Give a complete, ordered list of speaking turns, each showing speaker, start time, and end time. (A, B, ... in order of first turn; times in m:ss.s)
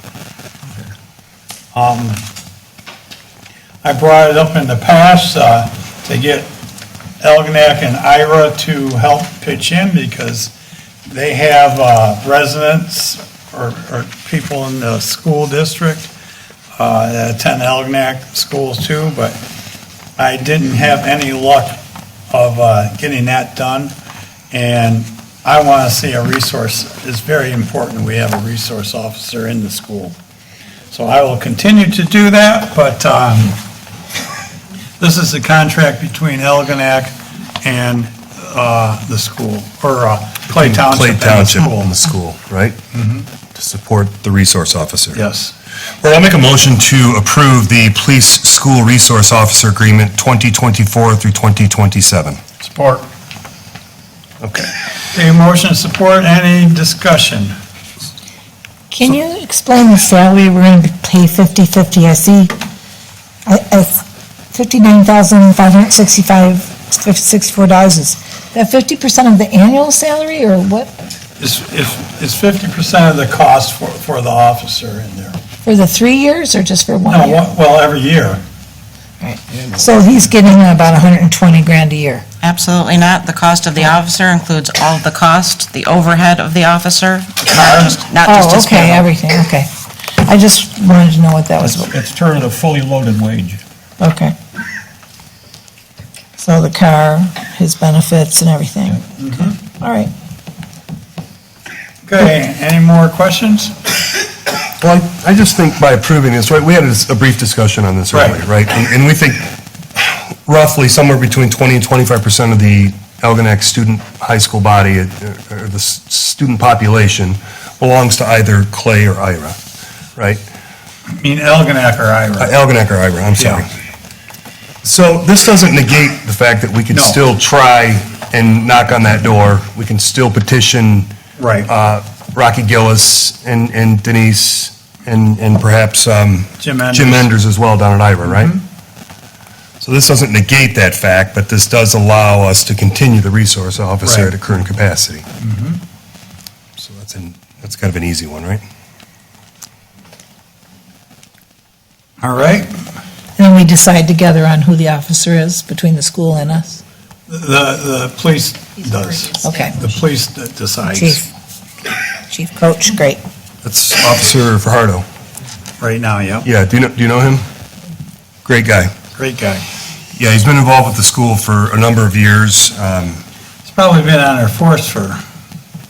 0:01.7-0:02.2 A
0:03.8-0:06.5 A
0:07.2-0:10.5 A
0:11.0-0:16.1 A
0:16.8-0:19.4 A
0:20.2-0:23.9 A
0:24.5-0:30.2 A
0:30.9-0:33.6 A
0:35.0-0:41.9 A
0:40.5-0:42.8 B
0:42.9-0:43.3 A
0:43.5-0:45.2 B
0:45.1-0:45.5 A
0:46.0-0:52.4 B
0:52.6-0:53.1 A
0:54.4-0:54.7 B
0:55.1-0:57.6 A
0:58.9-1:02.5 C
1:03.4-1:10.9 C
1:11.4-1:15.4 A
1:15.6-1:17.4 C
1:17.1-1:18.4 A
1:19.2-1:22.2 C
1:19.5-1:19.9 D
1:22.4-1:29.0 E
1:27.5-1:28.0 A
1:28.2-1:31.9 C
1:31.6-1:33.6 D
1:34.0-1:34.3 C
1:36.4-1:39.1 C
1:39.2-1:39.6 A
1:39.7-1:40.1 C
1:42.0-1:43.7 A
1:44.8-1:49.5 B
1:48.1-1:48.4 A
1:50.1-1:59.6 B
2:00.2-2:00.4 B
2:01.2-2:02.5 A
2:02.4-2:03.7 B
2:03.4-2:03.6 A
2:04.8-2:11.1 B
2:06.9-2:07.2 A
2:11.4-2:11.7 A
2:11.7-2:18.6 B
2:16.6-2:17.3 A
2:18.2-2:18.6 A
2:19.8-2:25.2 B
2:24.0-2:24.3 A
2:25.4-2:25.8 A
2:26.8-2:28.6 B
2:32.2-2:32.7 A
2:33.4-2:36.8 C
2:37.3-2:41.2 A
2:39.4-2:39.8 C
2:40.9-2:41.3 C
2:42.3-2:43.2 C
2:43.6-2:45.0 B
2:45.8-2:46.5 A
2:46.4-2:47.4 B
2:48.4-2:48.9 B
2:49.1-2:49.6 A
2:50.2-2:53.2 B
2:53.6-2:55.2 A